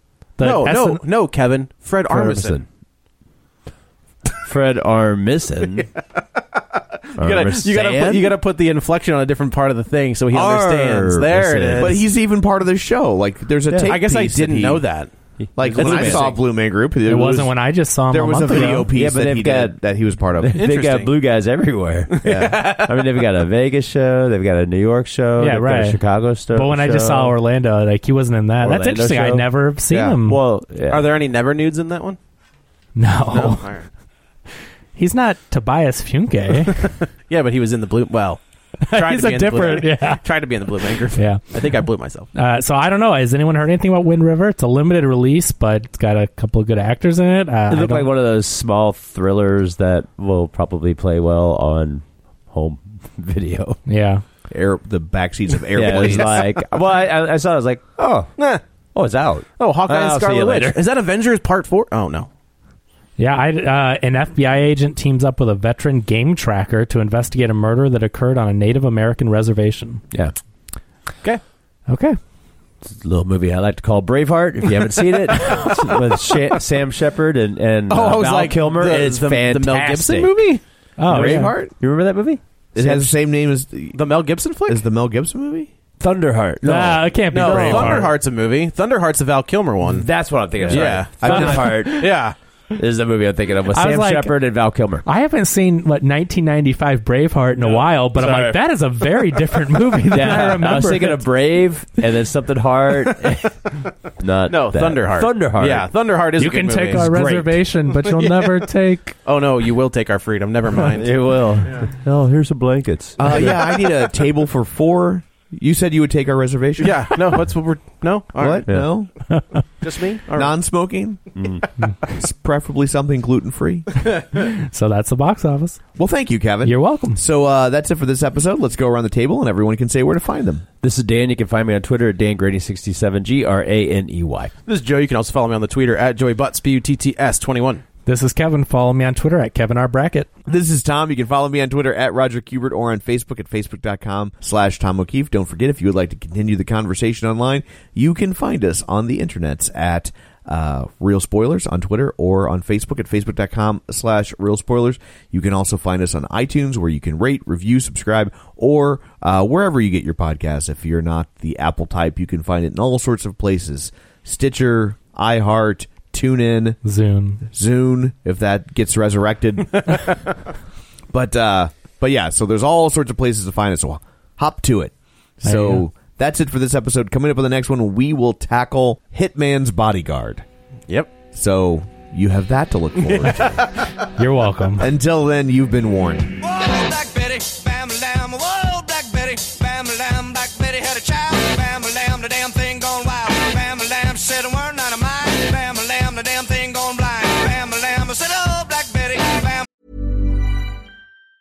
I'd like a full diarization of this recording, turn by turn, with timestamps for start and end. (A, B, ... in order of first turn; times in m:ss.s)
0:00.4-0:01.0 A
0:00.4-0:02.6 B
0:02.1-0:02.7 C
0:04.4-0:05.9 C
0:07.1-0:12.0 B
0:07.2-0:08.4 C
0:10.3-0:12.0 C
0:11.8-0:14.8 D
0:13.7-0:14.0 C
0:13.9-0:16.4 B
0:15.4-0:16.3 C
0:15.6-0:17.5 D
0:17.1-0:18.9 A
0:18.1-0:20.6 D
0:18.9-0:19.8 C
0:20.4-0:27.4 C
0:20.6-0:21.1 B
0:22.1-0:23.2 B
0:22.2-0:22.7 D
0:25.4-0:26.0 A
0:26.5-0:30.4 A
0:28.6-0:29.5 C
0:29.9-0:30.2 D
0:30.2-0:31.1 C
0:30.9-0:32.2 B
0:33.0-0:33.6 A
0:33.3-0:33.9 B
0:35.0-0:36.9 A
0:36.7-0:42.3 B
0:38.9-0:40.2 A
0:41.1-0:41.6 A
0:42.4-0:48.1 A
0:47.7-0:53.8 C
0:53.9-0:54.2 A
0:54.5-0:56.6 D
0:55.7-0:58.3 C
0:55.9-0:56.4 B
0:58.4-0:58.6 B
0:59.0-1:00.8 C
0:59.6-1:02.3 B
1:03.2-1:10.0 A
1:11.9-1:12.2 A
1:12.8-1:20.4 C
1:15.1-1:16.4 B
1:17.9-1:20.6 B
1:21.0-1:21.6 A
1:21.1-1:21.7 D
1:21.1-1:23.1 C
1:22.8-1:24.0 D
1:23.9-1:24.8 B
1:24.7-1:25.7 D
1:26.0-1:28.1 C
1:26.6-1:28.1 A
1:27.3-1:30.1 B
1:29.8-1:32.1 C
1:30.7-1:32.4 B
1:30.7-1:31.7 D
1:30.8-1:32.1 A
1:32.7-1:35.1 C
1:33.7-1:34.4 A
1:35.0-1:41.3 A
1:38.2-1:38.6 C
1:40.1-1:45.9 C
1:44.5-1:47.3 B
1:46.4-1:49.2 A
1:46.9-1:47.5 C
1:47.9-1:48.6 B
1:49.2-1:51.9 B
1:51.0-1:53.6 C
1:53.2-1:57.4 D
1:53.3-1:53.6 B
1:56.8-1:59.0 B
1:58.4-1:59.1 D
1:59.3-1:59.6 A
1:59.8-2:00.5 B
2:00.3-2:01.6 D
2:01.4-2:01.6 C
2:02.1-2:04.1 D
2:04.3-2:05.8 A
2:06.0-2:10.6 D
2:06.6-2:07.2 A
2:10.8-2:14.5 C
2:14.7-2:17.8 B
2:18.1-2:20.3 A
2:20.4-2:46.8 D
2:46.8-2:47.4 A
2:47.4-2:50.1 D
2:51.1-3:00.4 D
2:55.4-2:55.8 A
3:01.3-3:03.7 D
3:03.0-3:03.9 B
3:04.2-3:04.9 A
3:04.8-3:06.4 D
3:06.4-3:19.7 E